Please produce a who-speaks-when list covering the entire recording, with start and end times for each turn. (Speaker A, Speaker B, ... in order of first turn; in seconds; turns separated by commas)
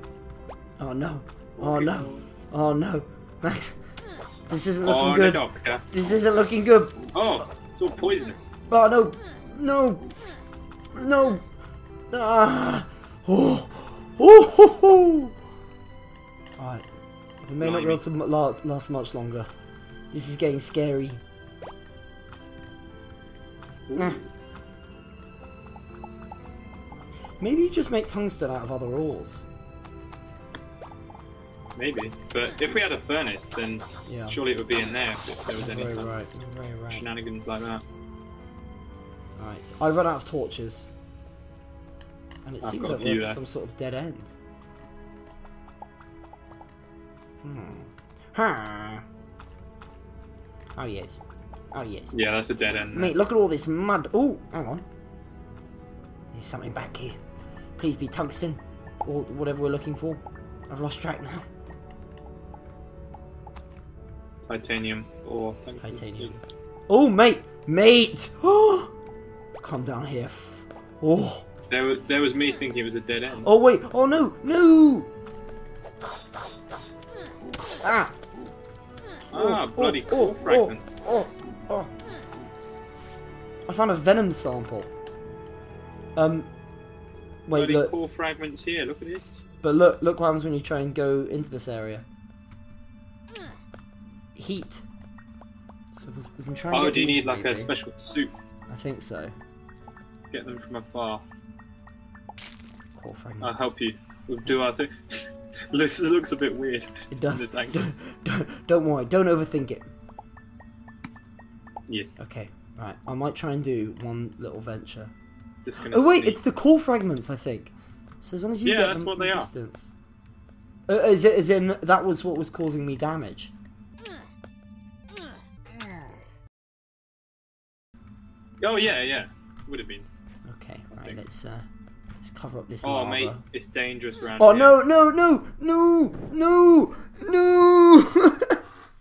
Speaker A: 0.8-3.8, Speaker B: 1.6-2.3, Speaker A: 4.5-7.1, Speaker B: 4.8-5.9, Speaker B: 7.1-8.5, Speaker A: 8.7-10.1, Speaker A: 10.9-11.5, Speaker A: 12.1-15.3, Speaker A: 16.6-16.9, Speaker A: 17.4-19.5, Speaker B: 17.6-18.0, Speaker A: 20.1-21.2, Speaker B: 23.9-24.3, Speaker A: 27.4-29.5, Speaker B: 31.8-36.2, Speaker A: 34.0-34.4, Speaker A: 35.5-37.0, Speaker B: 36.9-37.8, Speaker A: 39.4-40.9, Speaker A: 42.4-44.4, Speaker B: 42.6-43.4, Speaker A: 47.4-49.0, Speaker A: 50.8-51.2, Speaker A: 51.7-52.1, Speaker B: 52.1-53.2, Speaker A: 52.7-54.9, Speaker A: 56.3-57.2, Speaker A: 57.8-61.5, Speaker B: 64.5-66.3, Speaker A: 65.8-68.9, Speaker A: 69.6-71.5, Speaker B: 71.7-73.5, Speaker A: 73.3-75.1, Speaker A: 77.8-78.1, Speaker B: 79.3-81.0, Speaker A: 79.3-81.9, Speaker A: 83.7-84.9, Speaker A: 86.2-86.5, Speaker A: 87.5-87.9, Speaker B: 87.5-89.4, Speaker A: 89.6-92.0, Speaker A: 94.3-94.8, Speaker A: 95.9-97.7, Speaker B: 96.7-98.3, Speaker A: 98.7-99.3, Speaker B: 100.3-101.2, Speaker A: 102.9-103.6, Speaker B: 103.4-107.9, Speaker A: 107.1-109.9, Speaker B: 111.9-112.1, Speaker A: 112.2-115.1, Speaker B: 115.6-116.4, Speaker A: 115.8-119.9, Speaker B: 118.6-119.5, Speaker A: 120.9-123.5, Speaker B: 128.6-130.1, Speaker A: 130.4-131.7, Speaker B: 130.9-131.2, Speaker A: 132.2-133.4, Speaker B: 132.8-134.8, Speaker A: 134.4-138.6